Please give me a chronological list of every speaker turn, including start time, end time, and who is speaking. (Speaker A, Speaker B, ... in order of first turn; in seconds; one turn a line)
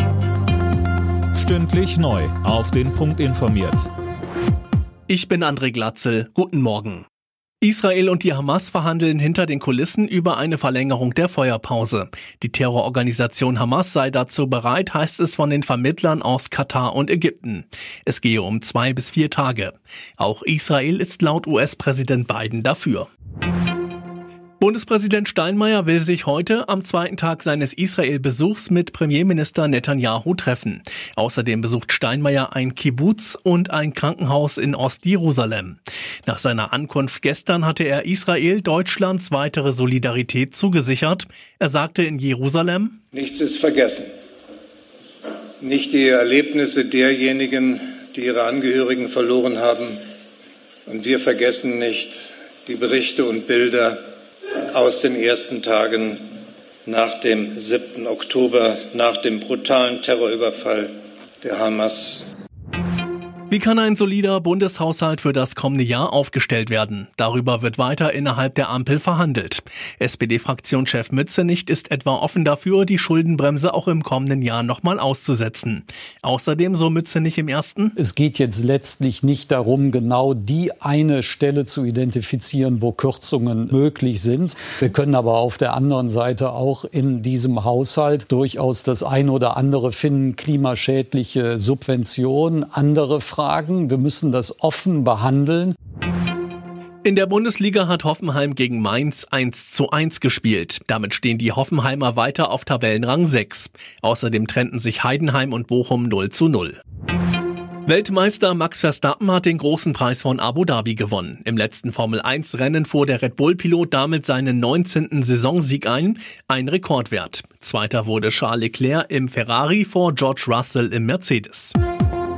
Speaker A: 1.3-3.9
Speaker B: 5.1-7.0
Speaker B: 7.6-23.1
Speaker B: 24.6-43.0
Speaker C: 43.1-44.1
Speaker C: 45.6-50.0
Speaker C: 50.9-54.0
Speaker C: 54.7-56.3
Speaker C: 56.9-62.3
Speaker B: 63.5-78.0
Speaker D: 78.0-95.7
Speaker B: 97.0-106.8
Speaker B: 107.8-121.7